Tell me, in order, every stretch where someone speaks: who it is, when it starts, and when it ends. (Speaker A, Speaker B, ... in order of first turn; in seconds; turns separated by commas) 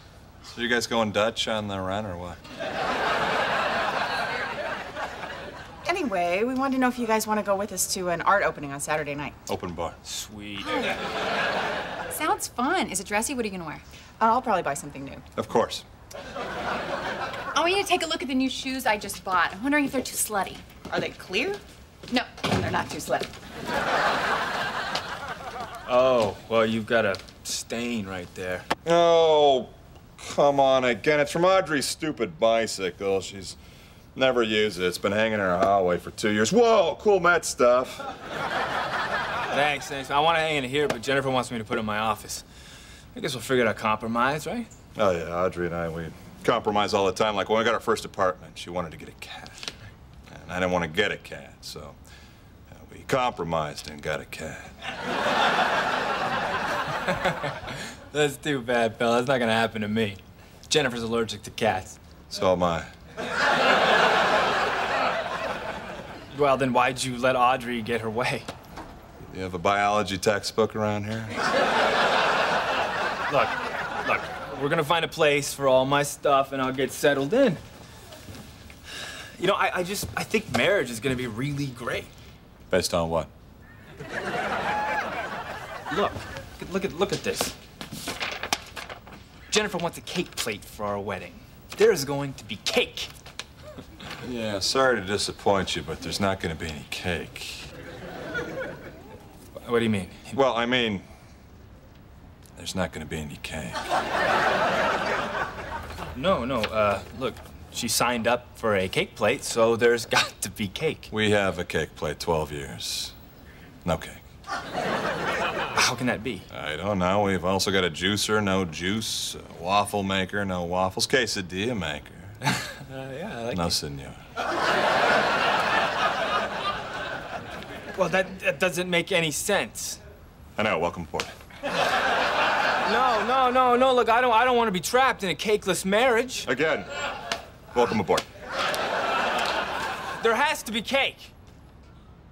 Speaker A: 0.5-2.4, Speaker B: 5.9-9.4, Speaker A: 9.5-10.0, Speaker C: 10.0-11.0, Speaker D: 12.1-13.1, Speaker B: 13.2-13.5, Speaker B: 14.2-15.2, Speaker A: 15.4-15.8, Speaker D: 17.6-20.6, Speaker B: 20.9-21.6, Speaker B: 22.1-23.3, Speaker C: 25.9-28.7, Speaker A: 28.9-33.6, Speaker A: 34.1-38.1, Speaker C: 39.5-42.5, Speaker C: 43.1-44.7, Speaker A: 45.0-49.7, Speaker A: 50.3-52.0, Speaker A: 52.7-54.8, Speaker C: 56.9-62.0, Speaker A: 62.3-62.9, Speaker C: 66.3-68.5, Speaker A: 69.3-71.4, Speaker C: 73.3-77.6, Speaker C: 79.0-82.1, Speaker A: 82.7-83.3, Speaker C: 85.9-87.6, Speaker C: 89.5-93.1, Speaker A: 94.2-97.7, Speaker C: 99.6-100.4, Speaker A: 100.3-101.1, Speaker A: 102.6-103.8, Speaker C: 106.1-111.1, Speaker A: 111.1-113.1, Speaker A: 113.8-114.2, Speaker C: 115.7-116.5, Speaker A: 116.5-122.4, Speaker C: 122.4-123.7, Speaker A: 123.5-124.2, Speaker C: 127.9-130.0, Speaker A: 130.6-131.3, Speaker C: 132.8-136.5, Speaker A: 136.5-136.9, Speaker A: 137.7-138.3, Speaker C: 140.2-141.3